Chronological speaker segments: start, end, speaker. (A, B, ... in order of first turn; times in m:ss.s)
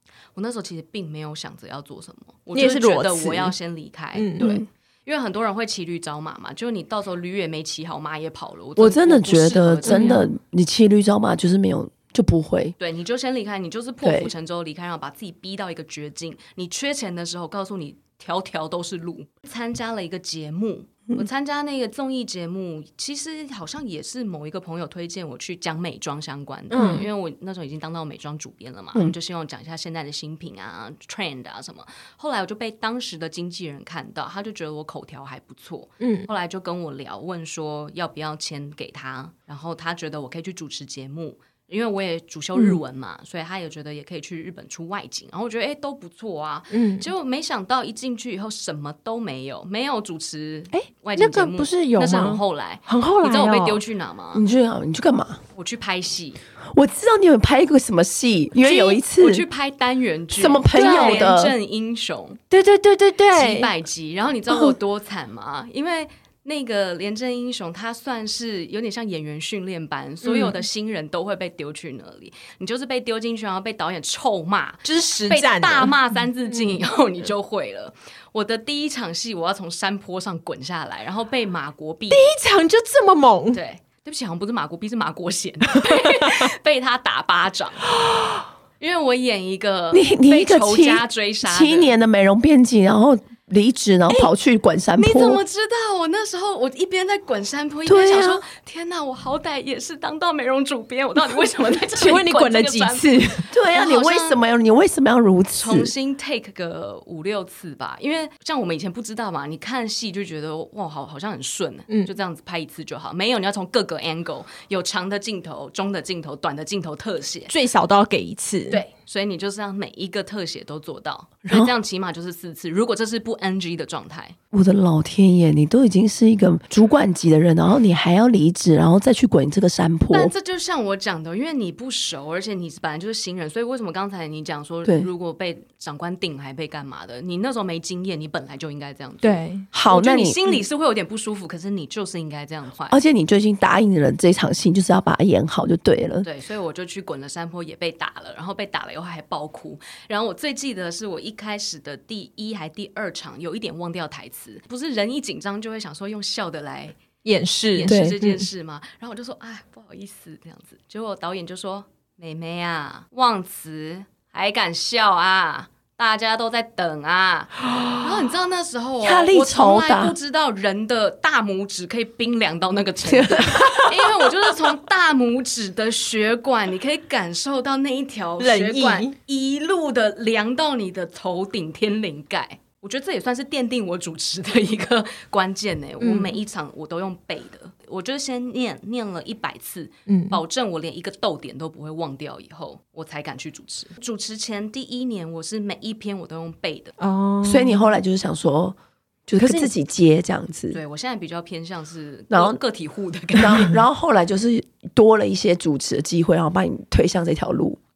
0:00.4-0:10.2 A
0:02.5-0:03.5 B
0:04.2-0:04.6 B
0:04.4-0:04.7 C
0:08.8-0:12.8 C
0:09.8-0:10.2 B
0:12.8-0:54.4 A
0:14.0-0:14.3 C
0:26.7-0:27.1 B
0:26.8-0:27.0 C
0:36.0-0:36.3 B
0:46.7-0:47.1 B
0:50.7-0:53.8 B
0:54.3-0:55.4 C
0:55.6-0:56.4 A
0:56.7-0:59.4 C
0:58.6-1:02.4 A
1:00.4-1:01.6 C
1:00.7-1:01.3 B
1:02.5-1:03.7 B
1:03.3-1:22.2 A
1:10.2-1:10.6 B
1:14.8-1:16.0 B
1:22.1-1:23.6 B
1:23.5-1:27.9 A
1:25.9-1:26.3 B
1:28.1-1:28.4 B
1:28.8-1:31.9 A
1:29.9-1:35.4 C
1:35.0-1:44.4 A
1:37.9-1:38.4 C
1:41.9-1:43.5 B
1:43.5-1:45.9 C
1:45.6-1:57.5 A
1:57.5-1:58.8 B
1:58.7-2:04.4 A
2:01.4-2:01.7 C
2:04.5-2:10.3 C
2:10.1-2:23.0 A
2:19.2-2:19.7 B
2:19.7-2:20.6 C
2:22.9-2:26.3 C
2:26.2-2:37.0 A
2:37.2-2:38.4 B
2:37.7-3:17.0 A
2:37.9-2:38.2 C
2:49.0-2:50.2 C
2:53.1-2:54.2 C
2:58.4-2:59.1 B
3:06.0-3:06.4 B
3:10.1-3:10.4 B
3:17.0-3:17.8 B
3:17.4-3:20.8 C
3:19.4-3:19.7 B
3:20.7-3:23.7 A
3:22.3-3:22.6 C
3:23.3-3:27.8 C